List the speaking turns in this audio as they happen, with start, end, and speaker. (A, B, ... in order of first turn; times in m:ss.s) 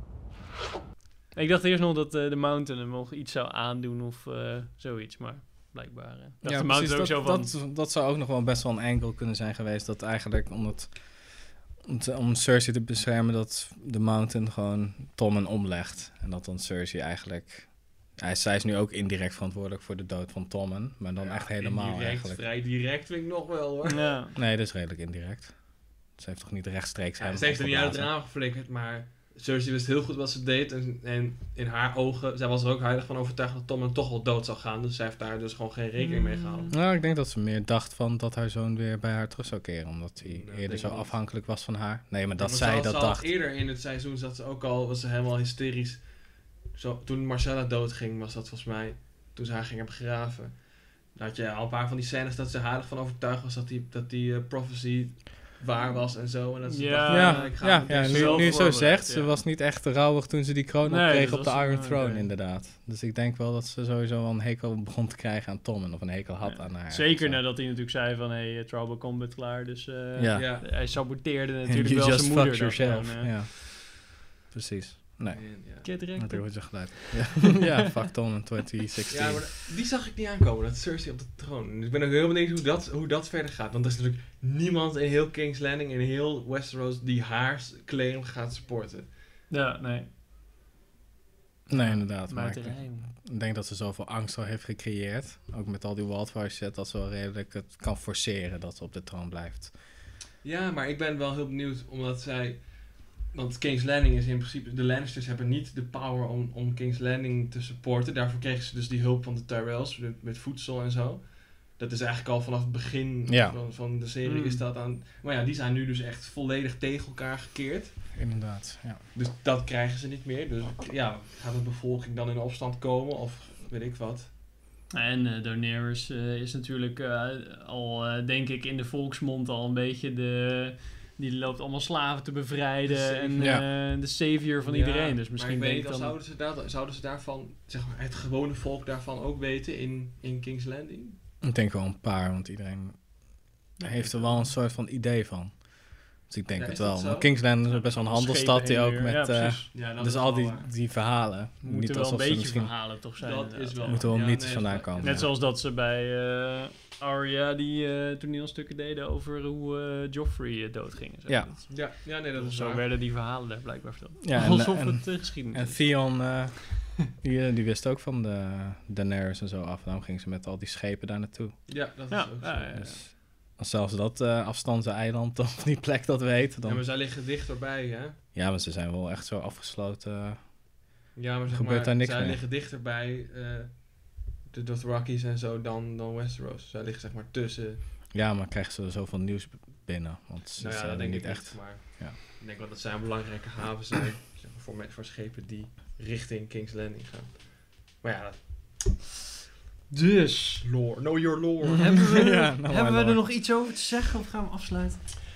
0:01.3-0:07.5 A
0:06.4-0:22.4 B
0:21.2-0:24.2 C
0:23.9-0:24.3 A
0:24.4-0:28.1 B
0:27.2-0:36.7 C
0:36.0-0:36.8 A
0:36.7-0:43.3 B
0:40.2-0:41.2 C
0:42.4-0:58.9 C
0:56.6-0:59.3 A
0:57.1-1:07.4 B
1:00.8-1:02.3 A
1:06.4-1:13.4 A
1:10.2-1:11.0 B
1:10.3-1:10.6 C
1:11.6-1:19.5 B
1:15.3-1:15.9 C
1:15.8-1:17.7 A
1:19.1-1:29.1 C
1:29.5-1:30.1 A
1:31.7-1:39.7 B
1:31.7-1:33.1 A
1:40.4-1:58.0 C
1:53.3-1:53.6 B
1:54.2-1:54.6 A
1:58.1-1:59.0 B
1:59.1-2:04.3 C
2:04.9-2:16.2 A
2:12.8-2:13.7 C
2:13.4-2:13.6 B
2:14.6-2:21.2 C
2:21.4-2:32.9 B
2:23.8-2:24.5 A
2:26.5-2:27.6 C
2:27.6-2:29.7 A
2:29.7-2:30.7 C
2:31.6-2:34.1 A
2:33.2-2:35.3 C
2:33.8-2:35.3 B
2:35.0-2:46.4 A
2:41.7-2:42.9 C
2:44.2-2:51.6 B
2:51.7-2:53.1 C
2:52.1-2:53.1 A
2:53.6-2:56.8 B
2:56.6-2:58.2 C
2:58.3-3:00.5 B
3:01.1-3:07.8 C
3:01.5-3:02.4 B
3:08.1-3:12.2 B
3:10.6-3:19.0 C
3:19.9-3:20.6 A
3:20.6-3:22.1 C
3:21.8-3:25.2 A
3:22.0-3:23.2 B